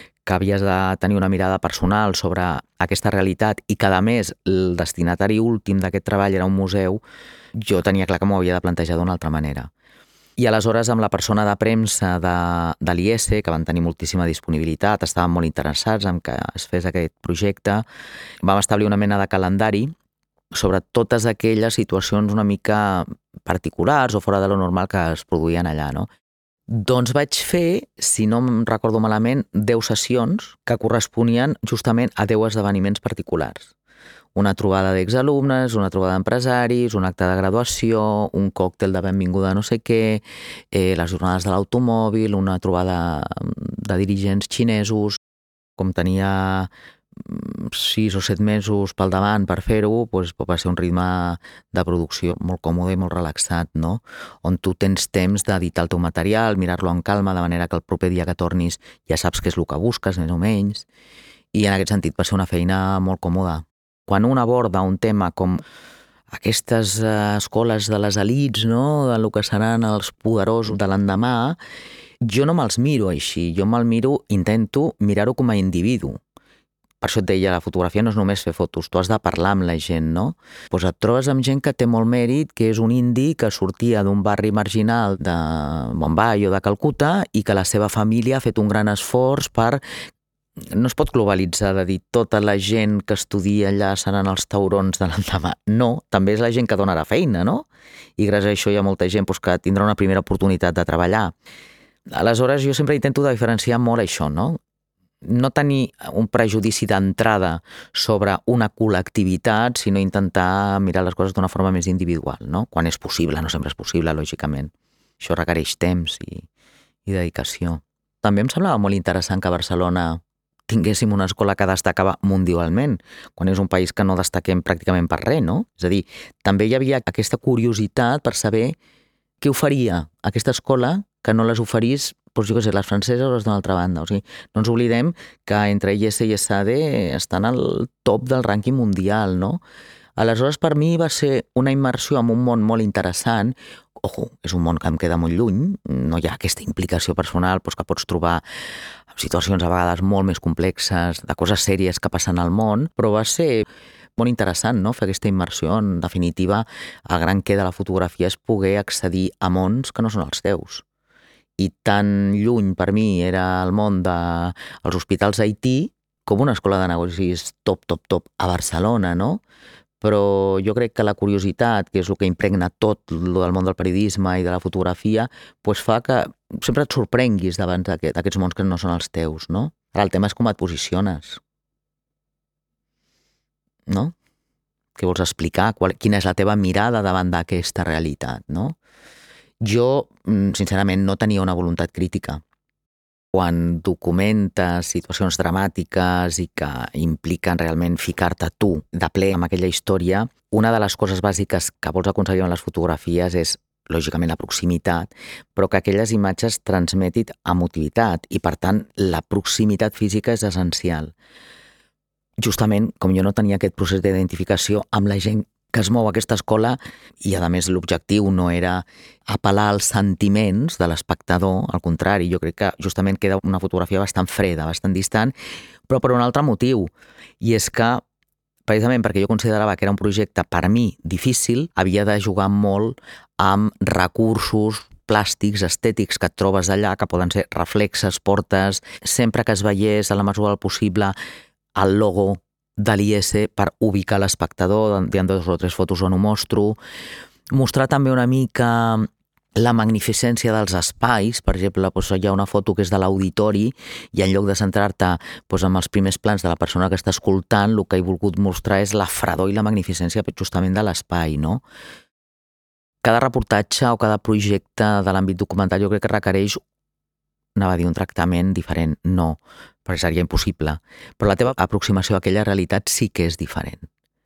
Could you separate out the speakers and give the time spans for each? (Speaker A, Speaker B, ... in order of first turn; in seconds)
Speaker A: 0.2-7.0, 7.6-9.7, 10.4-17.8, 18.4-19.9, 20.5-26.1, 26.7-33.7, 34.3-45.2, 45.8-60.9, 61.5-65.6, 66.3-71.6, 72.2-76.2, 77.0-89.8, 90.7-101.3, 102.1-104.6, 105.2-116.5, 117.0-128.8, 129.4-139.6, 140.2-148.4, 149.1-160.8, 161.6-169.4, 170.0-181.4, 183.9-184.1, 184.9-188.8, 189.6-192.4, 193.3-211.1, 212.4-225.3, 225.9-226.9, 227.4-228.0, 228.7-241.2, 241.8-246.8, 247.5-261.6, 263.0-266.6, 267.6-273.9